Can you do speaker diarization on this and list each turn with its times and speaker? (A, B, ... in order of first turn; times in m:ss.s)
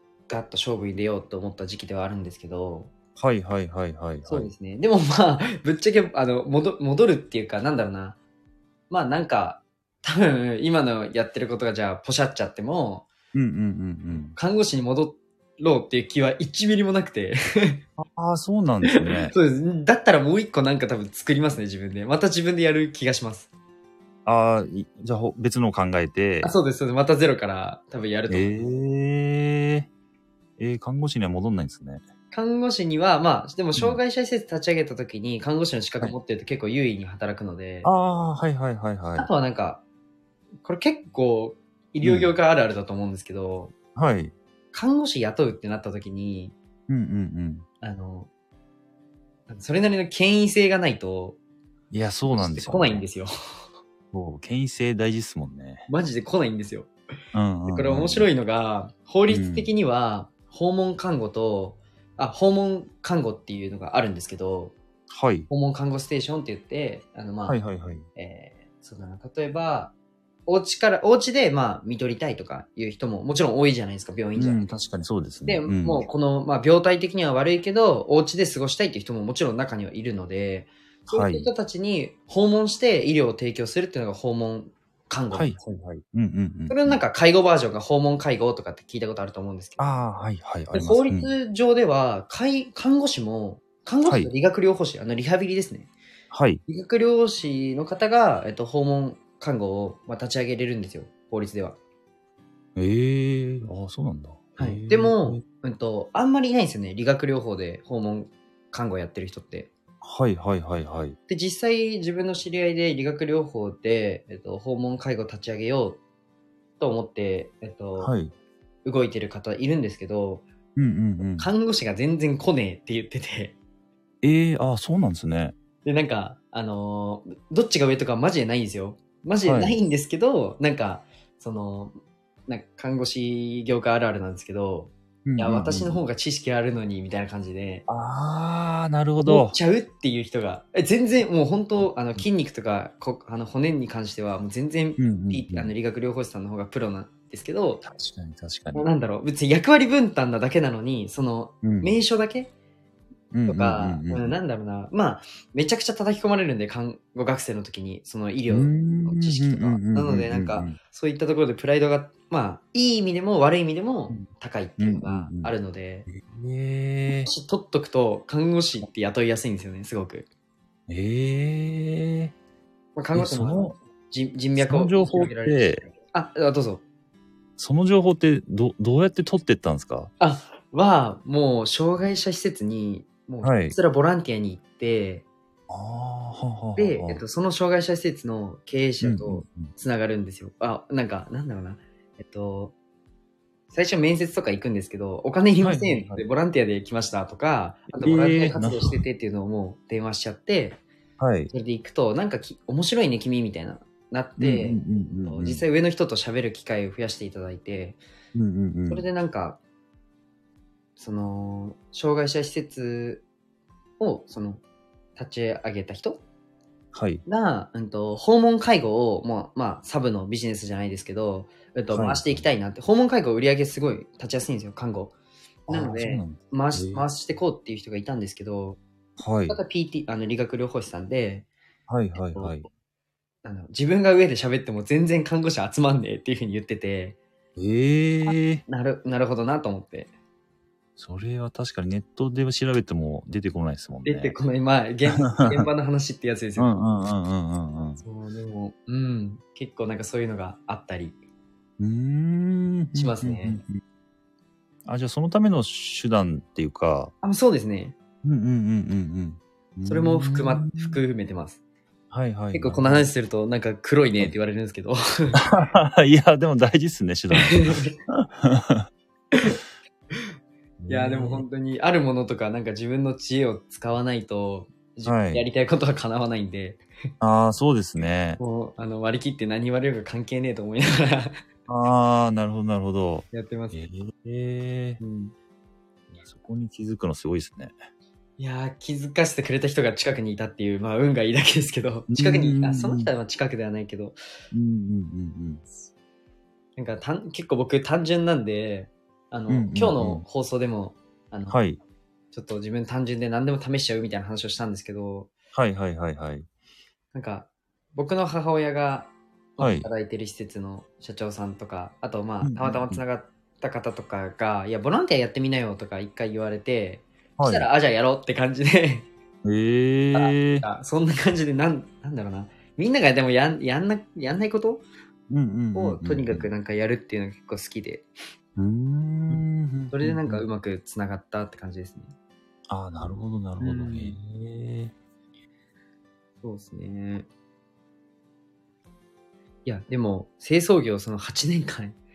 0:00.3-0:02.9 A
0:03.2-0:04.5 B
0:04.2-0:08.2 A
0:08.9-0:13.1 A
0:13.3-0:14.4 B
0:14.4-0:17.8 A
0:18.0-0:19.4 B
0:18.9-0:23.5 A
0:24.3-0:26.5 B
0:26.4-0:28.7 A
0:28.3-0:29.9 B
0:30.6-0:32.0 B
0:32.3-0:37.9 A
0:37.8-0:39.3 B
0:39.2-0:39.8 A
0:40.6-0:43.7 A
0:42.0-0:42.3 B
0:44.0-0:44.3 B
0:44.7-0:46.6 A
0:46.9-0:47.6 B
0:47.8-0:48.3 A
0:49.5-0:51.4 A
0:51.9-0:53.0 B
0:52.3-0:53.3 A
0:54.1-0:55.9 B
0:55.9-0:56.9 A
0:57.3-0:58.3 B
0:57.7-1:04.8 A
0:59.3-0:59.7 B
1:05.1-1:05.5 B
1:05.5-1:07.6 A
1:07.5-1:08.1 B
1:08.2-1:09.9 A
1:10.5-1:14.7 A
1:14.4-1:16.1 B
1:15.4-1:25.6 A
1:21.1-1:21.5 B
1:25.3-1:27.0 B
1:26.7-1:29.9 A
1:29.8-1:31.3 B
1:30.7-1:35.9 A
1:34.1-1:34.3 B
1:36.3-1:36.6 B
1:36.7-1:41.8 A
1:42.8-1:45.4 B
1:44.6-1:49.7 A
1:50.0-1:51.2 B
1:51.3-1:56.0 A
1:56.8-1:58.1 A
1:58.0-1:58.3 B
1:58.8-2:00.5 A
2:00.8-2:01.5 B
2:01.4-2:03.6 A
2:04.2-2:05.6 B
2:05.8-2:17.8 A
2:09.4-2:09.8 B
2:15.3-2:16.0 B
2:17.9-2:19.6 B
2:19.2-2:27.8 A
2:25.0-2:25.7 B
2:27.8-2:28.9 B
2:28.7-2:32.5 A
2:31.6-2:32.0 B
2:33.3-2:34.4 B
2:33.5-2:46.1 A
2:38.5-2:40.8 B
2:44.8-2:45.5 B
2:46.1-2:47.3 B
2:47.2-2:50.3 A
2:50.9-2:52.3 B
2:53.0-2:56.8 A
2:53.1-2:53.8 B
2:54.6-2:55.8 B
2:57.6-3:00.1 B
3:00.2-3:05.2 A
3:03.4-3:03.8 B
3:05.7-3:07.2 B
3:06.8-3:12.8 A
3:09.0-3:09.7 B
3:13.7-3:20.8 A
3:15.6-3:16.2 B
3:17.9-3:19.0 B
3:21.2-3:21.5 B
3:21.5-3:28.0 A
3:24.4-3:25.6 B
3:28.3-3:29.0 B
3:28.9-3:29.6 A
3:31.0-3:33.2 A
3:34.0-3:34.6 A
3:35.2-3:36.2 A
3:36.9-3:37.2 B
3:37.3-3:45.1 A
3:41.9-3:42.4 B
3:45.7-3:48.8 A
3:45.7-3:47.1 B
3:49.2-3:49.6 B
3:49.5-3:51.5 A
3:51.9-3:52.7 B
3:52.3-3:52.6 A
3:53.4-3:57.2 A
3:57.6-3:58.6 B
3:58.7-4:00.1 A
4:01.0-4:04.4 B
4:04.0-4:06.8 A
4:05.2-4:05.7 B
4:06.6-4:08.0 B
4:08.0-4:11.2 A
4:11.8-4:13.8 B
4:12.9-4:13.6 A
4:14.8-4:17.1 B
4:17.2-4:18.0 A
4:18.2-4:21.0 B
4:19.8-4:21.6 A
4:22.1-4:23.1 B
4:22.5-4:25.4 A
4:25.4-4:28.9 B
4:27.3-4:27.9 A
4:29.3-4:29.6 A
4:30.8-4:31.4 B
4:30.9-4:36.8 A
4:35.0-4:35.4 B
4:37.2-4:38.4 B
4:38.4-4:41.4 A
4:41.7-4:45.0 B
4:43.3-4:43.8 A
4:45.0-4:45.3 A
4:46.1-4:47.8 B
4:48.4-4:54.2 A
4:52.1-4:53.1 B
4:54.5-4:55.6 B
4:56.8-5:01.6 A
4:59.5-5:00.2 B
5:01.5-5:01.8 B
5:02.3-5:05.3 A
5:05.5-5:06.5 B
5:07.1-5:19.1 A
5:09.6-5:09.9 B
5:12.4-5:13.0 B
5:17.4-5:17.7 B
5:19.4-5:20.6 B
5:20.1-5:24.8 A
5:25.3-5:26.5 B
5:25.7-5:28.1 A
5:28.6-5:30.4 B
5:29.9-5:32.1 A
5:32.7-5:34.9 B
5:33.6-5:34.2 A
5:36.4-5:37.3 A
5:39.6-5:42.0 A